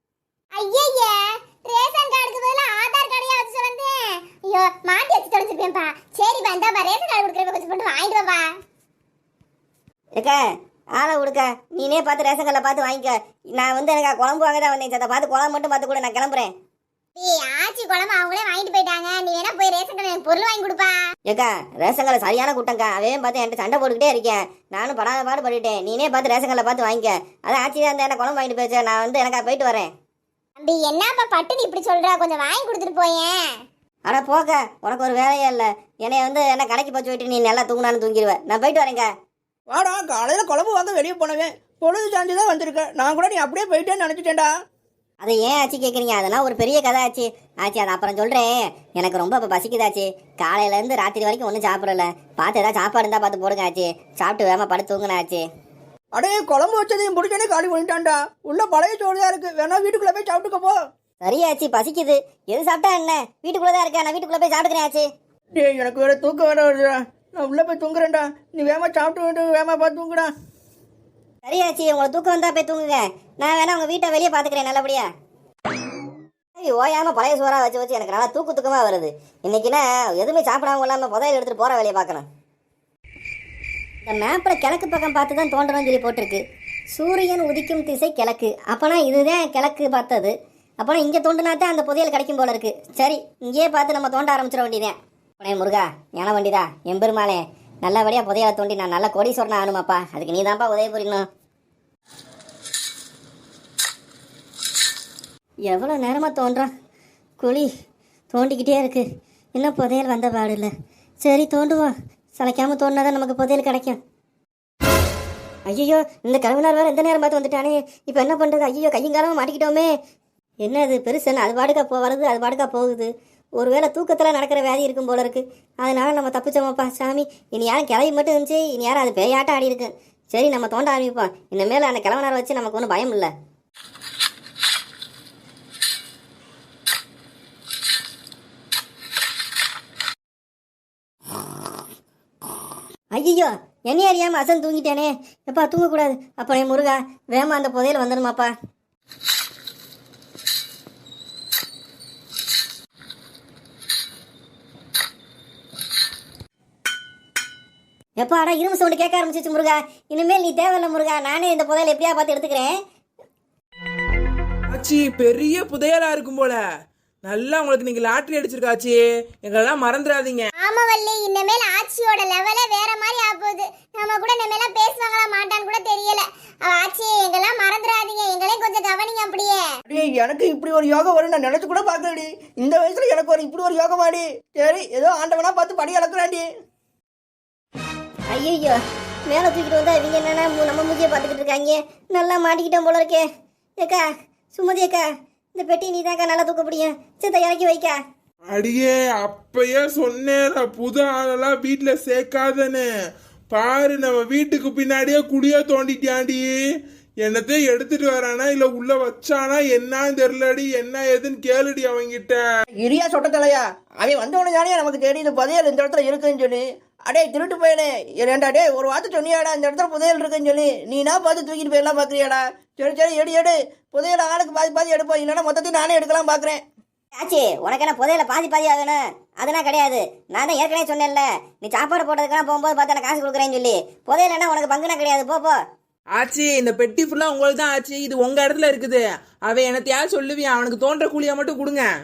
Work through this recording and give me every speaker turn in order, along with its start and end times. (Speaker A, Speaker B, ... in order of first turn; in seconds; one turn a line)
Speaker A: 0.6-8.5
Speaker B: 11.0-16.5
Speaker A: 17.2-21.0
Speaker B: 21.3-29.9
Speaker A: 30.6-33.4
Speaker B: 34.1-39.1
Speaker C: 39.7-44.5
Speaker B: 45.2-55.4
Speaker C: 56.2-60.8
Speaker B: 61.2-65.1
Speaker C: 65.6-70.3
Speaker B: 71.5-75.1
Speaker B: 76.6-82.3
Speaker B: 84.0-101.3
Speaker B: 105.7-106.7
Speaker B: 107.4-107.7
Speaker B: 108.3-109.0
Speaker B: 109.6-110.7
Speaker B: 111.2-114.0
Speaker B: 115.7-119.9
Speaker B: 120.6-133.3
Speaker B: 143.1-148.5
Speaker B: 158.2-162.7
Speaker D: 164.7-166.6
Speaker D: 167.2-170.5
Speaker A: 170.6-179.6
Speaker C: 179.9-186.4
Speaker B: 188.3-188.8
Speaker B: 189.3-193.2
Speaker B: 193.8-195.1
Speaker B: 195.6-198.0
Speaker E: 198.5-202.9
Speaker E: 203.5-206.6
Speaker E: 207.2-212.4
Speaker C: 212.8-226.6
Speaker B: 227.2-235.6
Speaker D: 236.1-241.9